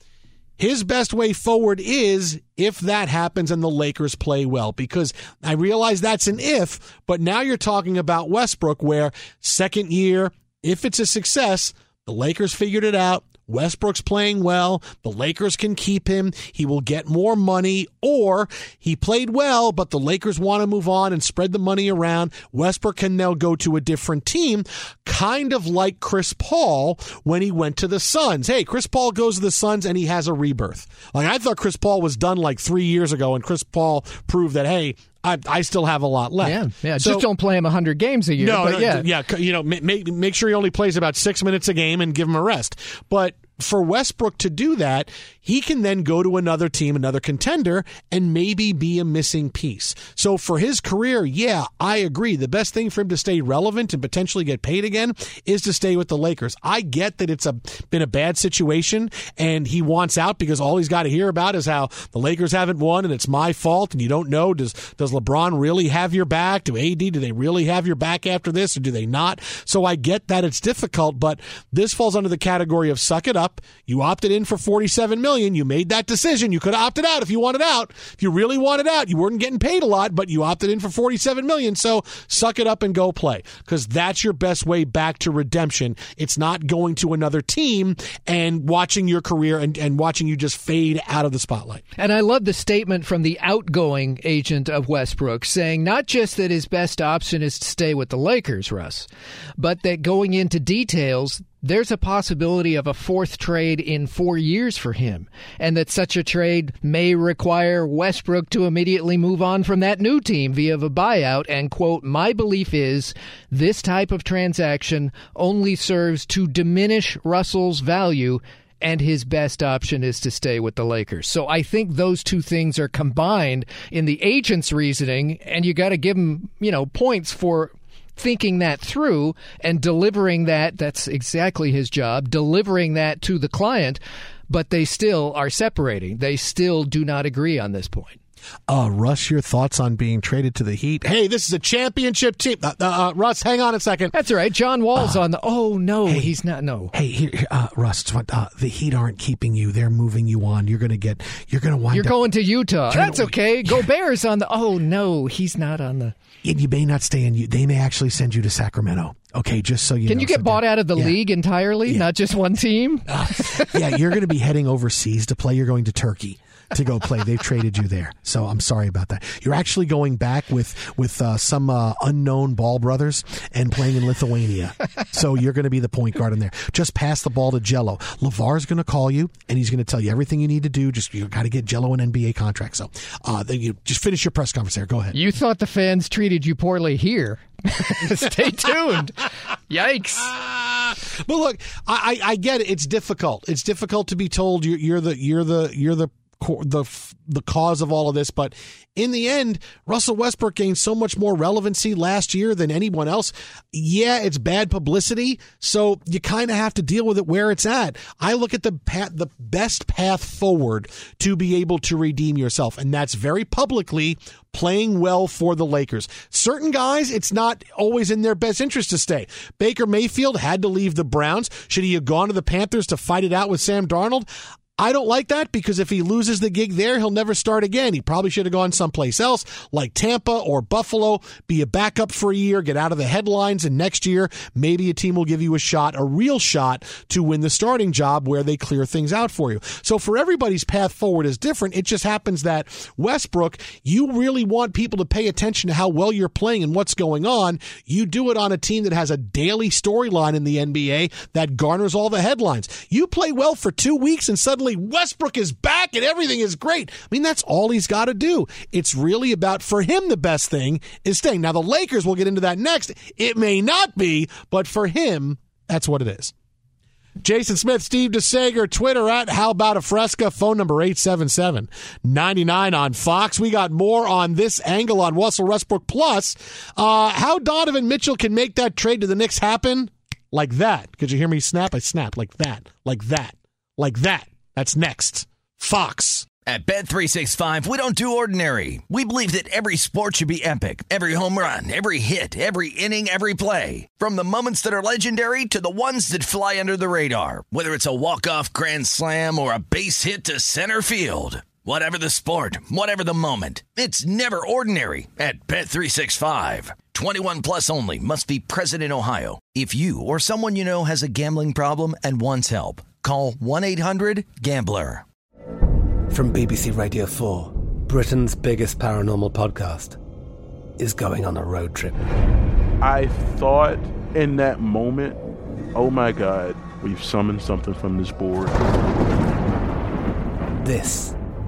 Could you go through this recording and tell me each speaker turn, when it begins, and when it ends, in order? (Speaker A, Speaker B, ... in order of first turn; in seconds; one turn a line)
Speaker A: 0.6-37.3
Speaker B: 36.4-39.1
Speaker A: 38.4-91.8
Speaker B: 92.0-99.1
Speaker B: 99.6-138.2
Speaker A: 138.7-144.1
Speaker B: 144.1-146.9
Speaker A: 144.9-145.2
Speaker A: 146.1-146.3
Speaker A: 146.9-152.2
Speaker B: 151.9-156.2
Speaker A: 152.9-153.9
Speaker A: 156.4-161.2
Speaker B: 160.1-163.8
Speaker A: 163.1-185.2
Speaker B: 185.1-190.3
Speaker A: 190.2-224.3
Speaker A: 224.8-266.3
Speaker A: 267.2-286.3
Speaker C: 286.5-315.0
Speaker D: 316.1-320.0
Speaker D: 320.8-322.0
Speaker E: 322.8-325.2
Speaker E: 325.8-328.6
Speaker D: 330.6-331.2